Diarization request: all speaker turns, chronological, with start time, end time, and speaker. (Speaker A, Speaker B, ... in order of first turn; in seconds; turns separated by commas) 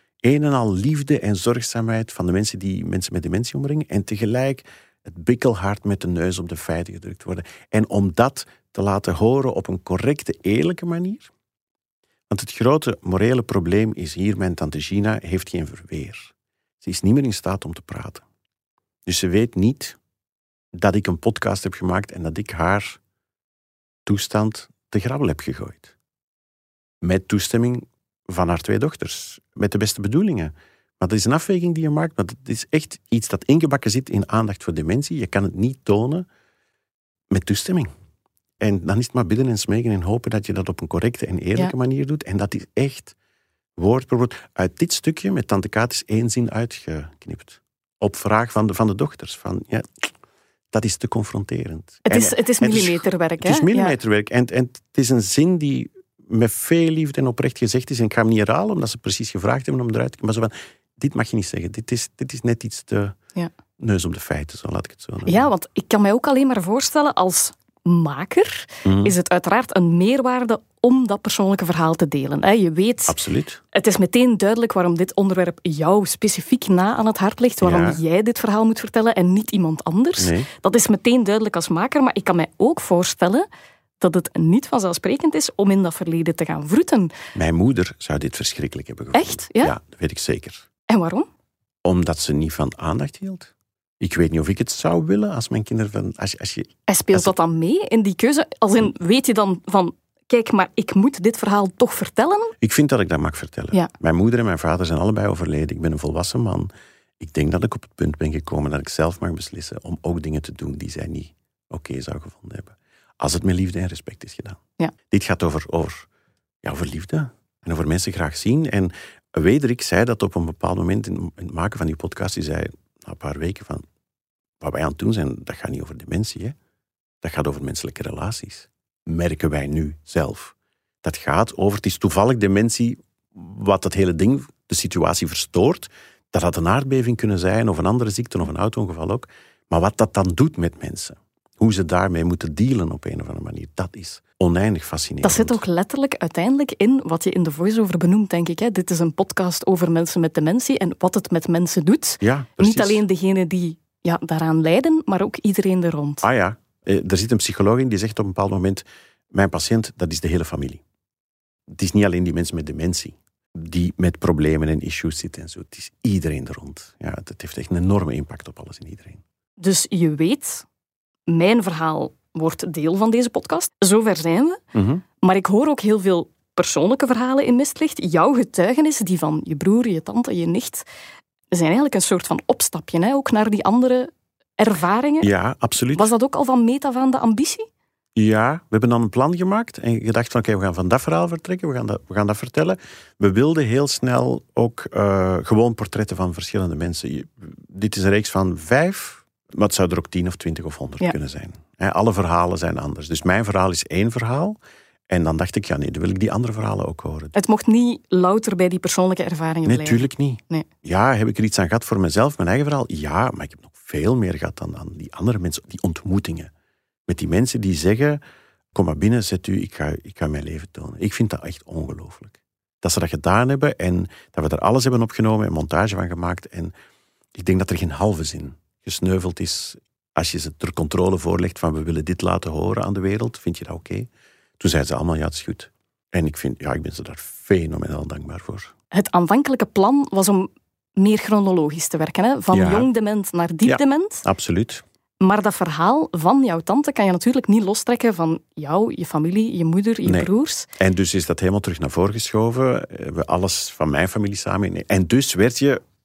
Speaker A: 0.2-11.3, Speaker A: 12.3-18.2, Speaker A: 19.1-20.0, Speaker A: 20.7-23.0, Speaker A: 24.1-25.9, Speaker A: 27.0-36.2, Speaker A: 37.3-37.9, Speaker A: 38.6-43.1, Speaker A: 43.8-50.1, Speaker A: 50.7-63.2, Speaker B: 52.0-53.9, Speaker A: 63.8-65.5, Speaker B: 65.2-73.1, Speaker A: 68.8-69.1, Speaker A: 73.1-73.6, Speaker B: 73.7-83.5, Speaker A: 77.6-78.0, Speaker A: 80.2-80.5, Speaker B: 84.0-87.1, Speaker A: 87.3-90.7, Speaker B: 89.1-89.7, Speaker B: 90.9-91.3, Speaker A: 91.8-97.3, Speaker B: 96.9-102.5, Speaker A: 102.6-106.7, Speaker A: 107.2-114.6, Speaker A: 115.1-116.1, Speaker A: 116.6-123.8, Speaker A: 124.6-126.5, Speaker A: 127.2-145.6, Speaker B: 145.2-156.2, Speaker A: 152.2-153.0, Speaker A: 156.2-160.8, Speaker A: 161.7-169.2, Speaker B: 169.6-170.6, Speaker B: 171.3-174.6, Speaker A: 174.7-175.0, Speaker B: 175.2-180.8, Speaker B: 181.5-185.3, Speaker A: 185.2-186.1, Speaker B: 185.9-187.7, Speaker A: 188.2-207.3, Speaker B: 207.3-210.7, Speaker A: 209.6-216.5, Speaker A: 217.1-218.2, Speaker A: 218.7-226.7, Speaker A: 227.3-238.7, Speaker B: 238.9-244.2, Speaker A: 242.5-242.9, Speaker A: 243.6-244.8, Speaker B: 245.2-250.7, Speaker A: 250.0-255.8